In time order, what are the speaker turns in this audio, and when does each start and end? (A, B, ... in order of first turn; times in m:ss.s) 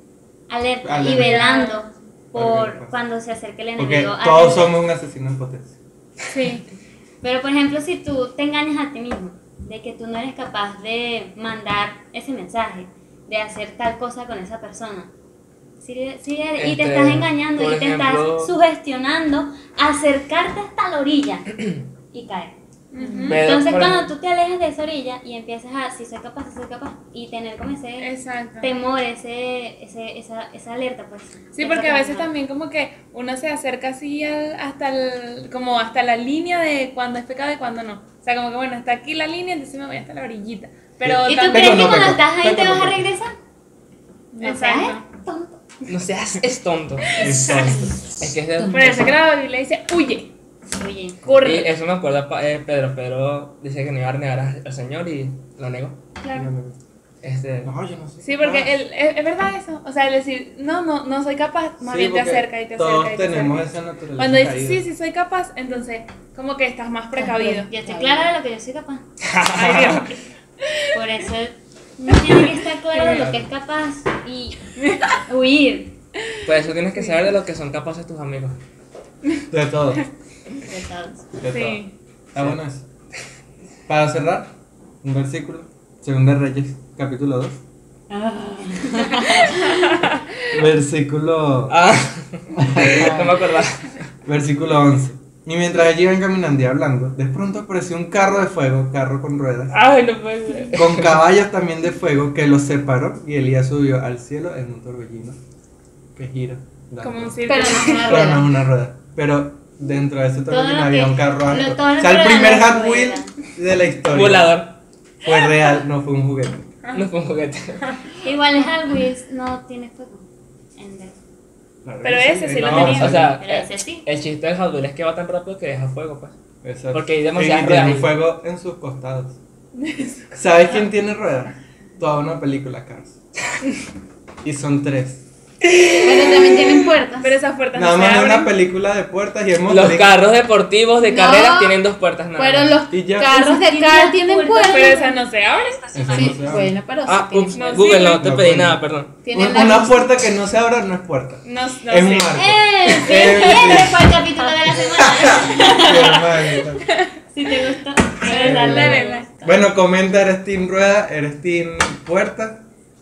0:00.5-0:04.8 A
0:00.8-0:01.6 B
0:01.1-0:01.9 C
0:02.3-0:03.0 B
0:03.8-0:05.8 B
0:06.3-0:06.7 C
0:07.2-0:15.1 A
0:15.8-0:22.5 A
0:16.6-0:18.5 D
0:22.9-0:23.6 C
0:23.0-0:23.3 E
0:23.2-0:24.1 D
0:23.2-0:32.3 A
0:28.0-0:28.7 C
0:31.5-0:42.0 C
0:41.0-0:43.0 B
0:41.2-0:43.3 A
0:44.3-0:45.0 C
0:44.4-0:45.6 A
0:45.9-0:47.2 D
0:47.1-0:48.0 B
0:47.2-0:48.0 E
0:48.2-0:49.2 D
0:48.5-0:49.0 E
0:48.7-0:50.3 C
0:50.7-0:51.3 A
0:51.2-0:51.7 C
0:51.3-0:56.0 D
0:56.2-0:56.5 C
0:56.3-0:56.8 B
0:57.2-0:57.7 D
0:57.6-0:58.7 B
0:58.2-1:07.7 C
1:01.8-1:04.8 B
1:07.1-1:08.4 E
1:07.7-1:09.0 A
1:09.2-1:10.1 D
1:09.5-1:10.9 C
1:10.9-1:16.0 A
1:12.1-1:13.3 C
1:13.1-1:13.4 B
1:14.8-1:15.1 C
1:16.4-1:18.6 D
1:19.5-1:20.0 B
1:20.6-1:21.3 A
1:21.4-1:22.8 B
1:21.5-1:21.9 C
1:23.9-1:27.6 B
1:28.1-1:30.0 A
1:29.6-1:30.3 C
1:30.5-1:31.8 B
1:31.7-1:34.1 D
1:32.5-1:33.5 B
1:34.2-1:39.8 B
1:39.7-1:41.3 D
1:40.7-1:45.4 B
1:46.1-1:54.6 B
1:47.0-1:48.4 C
1:47.4-1:48.5 E
1:50.5-1:53.3 A
1:54.1-1:54.8 D
1:55.2-1:56.7 B
1:56.9-1:57.9 D
1:58.2-2:00.2 A
2:00.8-2:01.2 A
2:01.8-2:03.4 B
2:02.0-2:03.3 C
2:02.5-2:06.4 D
2:03.4-2:04.0 A
2:06.6-2:09.4 B
2:06.9-2:08.2 D
2:09.8-2:10.2 C
2:10.3-2:13.2 B
2:14.4-2:15.2 B
2:15.7-2:16.8 D
2:16.0-2:17.4 E
2:17.2-2:18.6 C
2:17.7-2:20.2 B
2:19.7-2:22.8 D
2:21.0-2:21.8 E
2:22.4-2:25.2 E
2:22.9-2:23.3 B
2:23.3-2:26.4 A
2:24.7-2:26.2 C
2:25.9-2:26.8 B
2:26.1-2:27.8 E
2:27.0-2:29.1 D
2:27.5-2:28.2 C
2:27.9-2:34.2 B
2:29.2-2:30.2 E
2:31.4-2:32.4 C
2:32.4-2:36.2 A
2:33.1-2:33.6 C
2:34.9-2:36.9 B
2:35.7-2:36.2 C
2:37.3-2:39.6 A
2:38.2-2:39.3 C
2:38.3-2:42.6 B